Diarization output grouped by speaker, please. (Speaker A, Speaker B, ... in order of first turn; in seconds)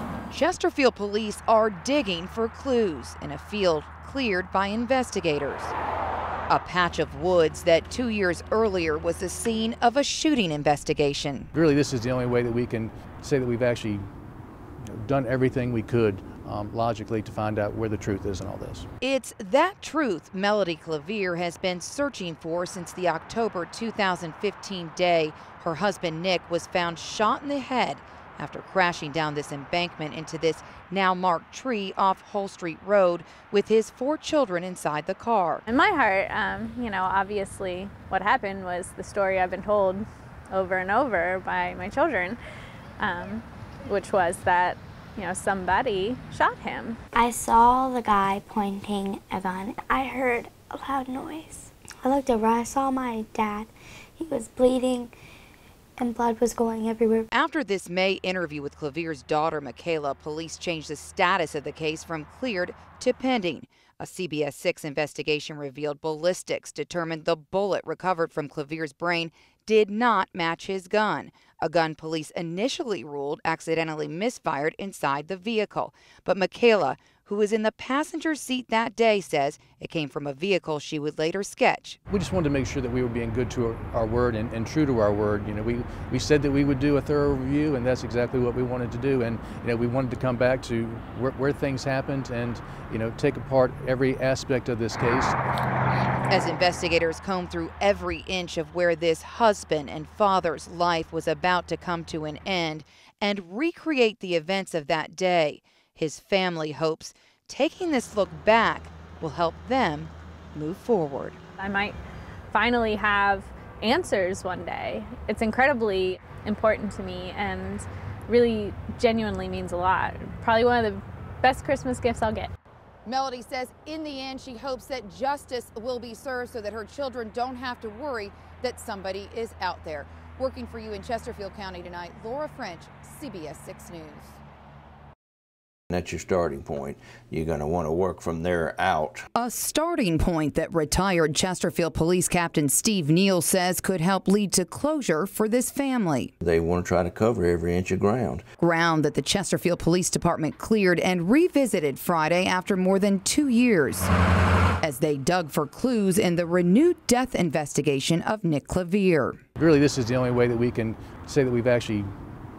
Speaker A: 0.3-5.7, 6.5-11.5, 19.0-35.6, 57.3-82.0, 96.3-111.4, 123.0-134.4, 139.3-146.3, 148.6-154.1, 154.8-159.4
Speaker B: 11.5-14.1, 14.8-18.9, 82.1-95.4, 159.6-162.1
Speaker C: 35.7-42.4, 43.0-47.0, 111.6-112.0, 112.5-122.5
Speaker D: 47.1-55.1, 56.0-57.3
Speaker E: 135.9-139.2, 146.4-148.4